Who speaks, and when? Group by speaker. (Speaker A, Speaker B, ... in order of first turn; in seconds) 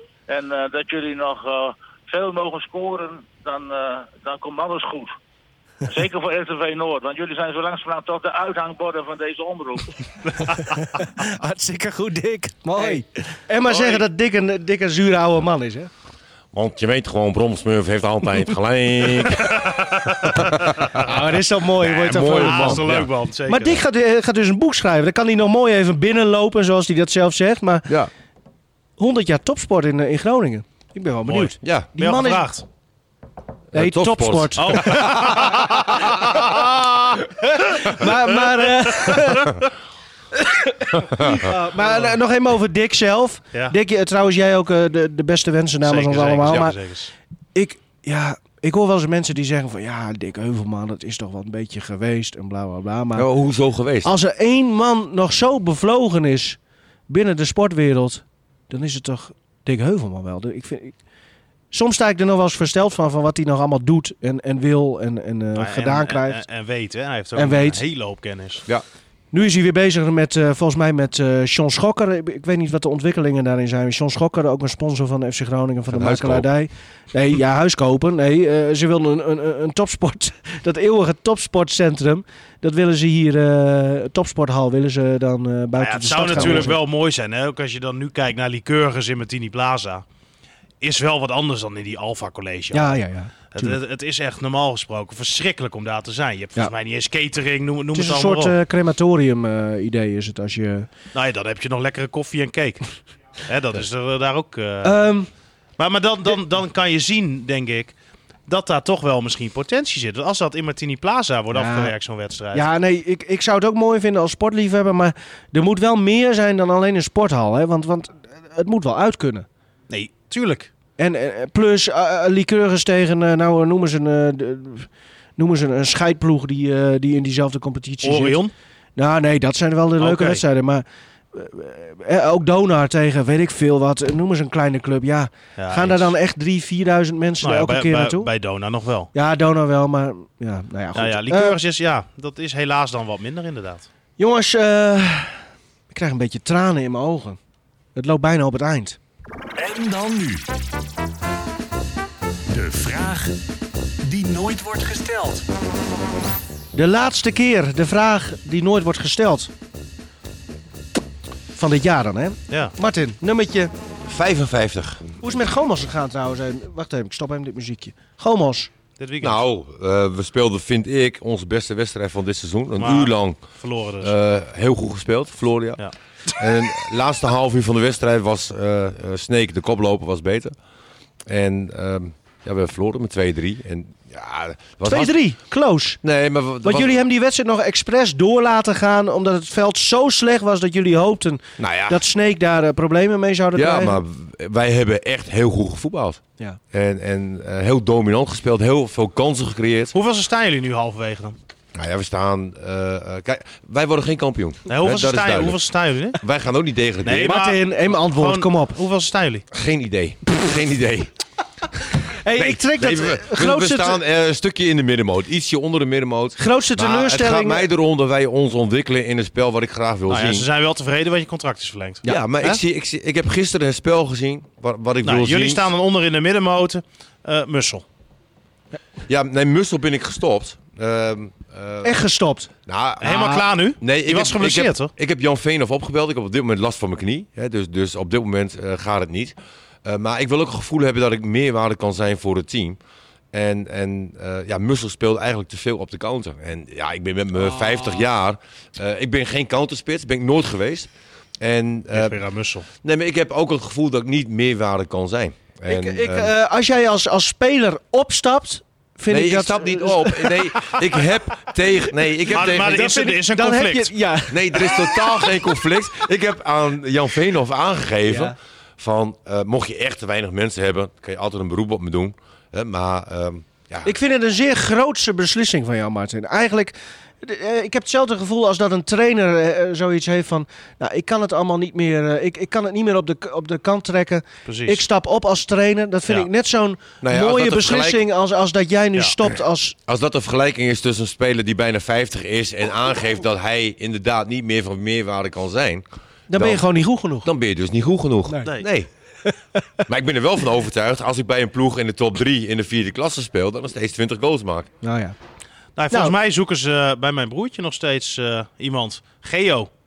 Speaker A: 0.3-5.1, 5.8-9.9
Speaker B: 10.5-15.9, 20.9-22.8, 23.5-28.0, 29.0-32.5, 33.7-35.4, 37.5-39.6, 40.3-46.8, 47.5-53.3, 54.0-60.9, 61.7-66.4, 67.3-67.8, 69.3-86.8, 92.7-93.8, 97.9-100.9, 104.8-105.3, 111.5-111.9, 112.5-119.5, 121.0-128.4, 128.9-138.3, 139.1-141.6, 144.2-145.4, 145.9-147.4, 147.9-149.0, 156.7-159.5, 161.6-163.7, 165.2-168.7, 184.8-186.0, 186.6-194.0, 207.2-208.8, 212.2-214.0, 216.4-217.7, 231.8-232.5, 255.7-261.1, 261.7-265.5, 268.1-268.4, 273.8-289.8, 296.3-297.3, 299.2-299.8, 304.8-305.1
Speaker C: 13.7-14.0, 19.4-21.1, 21.8-23.8, 31.2-32.6, 34.6-37.2, 39.0-39.6, 41.8-42.1, 45.8-47.1, 65.5-68.6, 85.8-90.0, 90.8-93.0, 93.5-98.5, 101.1-102.9, 103.5-105.0, 105.8-107.9, 108.5-112.7, 119.9-120.7, 128.0-128.5, 130.0-130.4, 135.6-136.1, 137.4-139.1, 140.9-143.9, 169.0-169.4, 172.8-174.1, 199.9-201.3, 204.7-206.2, 207.0-209.5, 220.1-222.6, 225.0-227.8, 233.0-234.9, 247.6-248.0, 251.9-252.7, 262.3-263.9, 284.4-284.8, 305.8-309.7
Speaker D: 16.5-21.1, 22.0-23.1, 31.6-31.9, 33.7-36.4, 41.0-41.5, 53.1-54.1, 75.9-76.4, 86.3-86.7, 164.0-165.1, 169.2-173.4, 174.0-175.8, 176.3-180.6, 181.2-185.1, 186.0-187.0, 191.6-192.0, 193.5-196.2, 196.7-199.9, 201.7-205.6, 206.2-207.4, 209.5-211.1, 212.4-220.5, 222.0-225.7, 229.1-232.0, 232.7-242.8, 243.3-250.9, 251.4-252.2, 252.8-256.3, 259.1-262.8, 264.3-273.9, 287.0-288.0, 289.9-296.6, 297.2-298.9, 299.9-304.7
Speaker E: 149.6-150.6, 152.5-153.4, 154.0-155.5